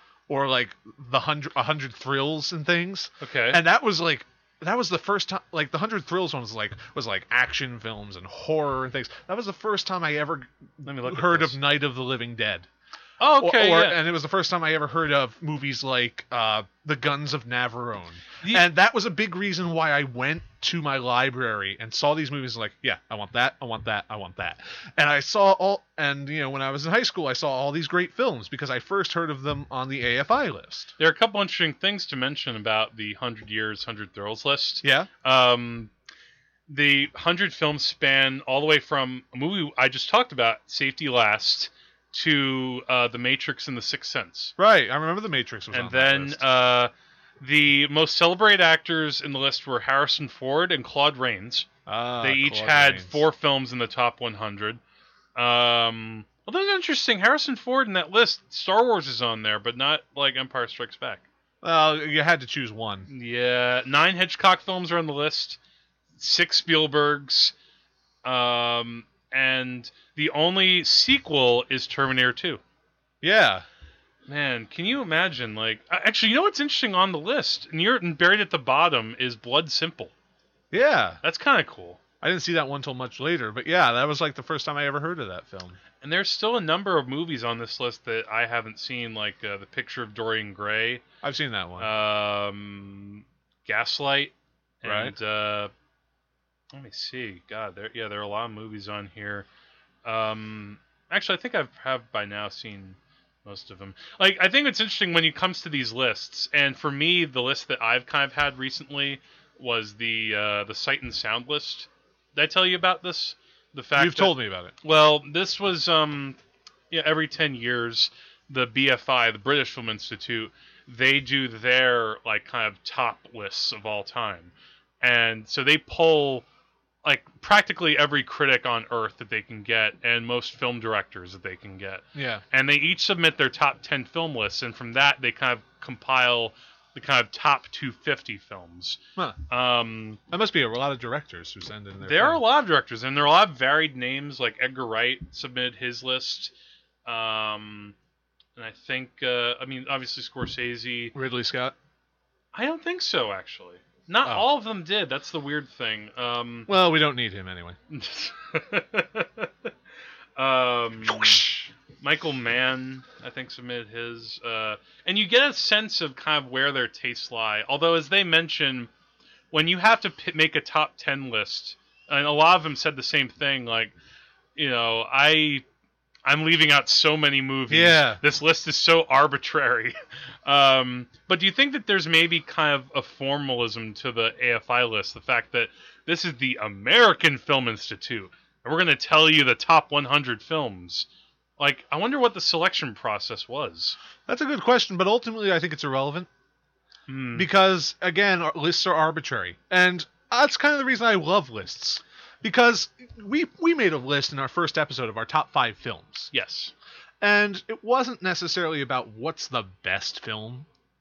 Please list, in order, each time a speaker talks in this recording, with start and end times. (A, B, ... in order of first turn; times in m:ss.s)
0:00.3-0:12.7 A
0:03.2-0:03.6 B
0:10.8-0:11.6 B
0:13.2-0:14.0 B
0:13.4-0:30.9 A
0:31.0-0:35.9 B
0:34.8-0:35.1 A
0:36.7-0:44.5 B
0:44.6-0:46.4 A
0:45.7-0:51.7 B
0:51.9-0:53.2 A
0:52.2-0:54.8 B
0:55.4-1:01.3 B
1:01.6-1:03.1 A
1:03.1-1:05.6 B
1:06.2-1:07.5 B
1:08.2-1:12.6 B
1:13.2-1:13.7 A
1:14.3-1:20.1 B
1:20.7-1:21.2 A
1:21.2-1:22.0 B
1:22.2-1:25.8 A
1:26.0-1:31.0 B
1:31.2-1:31.9 A
1:31.8-1:35.7 B
1:34.8-1:35.2 A
1:36.7-1:39.5 B
1:40.0-1:56.4 B
1:54.0-1:54.7 A
1:56.9-2:06.4 B
2:07.0-2:20.2 B
2:12.2-2:12.4 A
2:20.3-2:22.4 A
2:22.0-2:26.5 B
2:27.1-2:28.0 B
2:28.6-2:31.2 B
2:31.1-2:31.8 A
2:32.5-2:36.7 B
2:36.7-2:37.8 A
2:37.9-2:39.7 B
2:40.4-2:48.9 B
2:41.1-2:41.7 A
2:49.5-2:53.9 B
2:54.6-2:55.6 B
2:56.3-3:11.1 B
2:57.7-2:58.2 A
3:11.6-3:14.0 B
3:14.3-3:16.3 A
3:17.1-3:17.5 B
3:17.4-3:26.3 A
3:26.3-3:26.7 B
3:27.2-3:30.7 A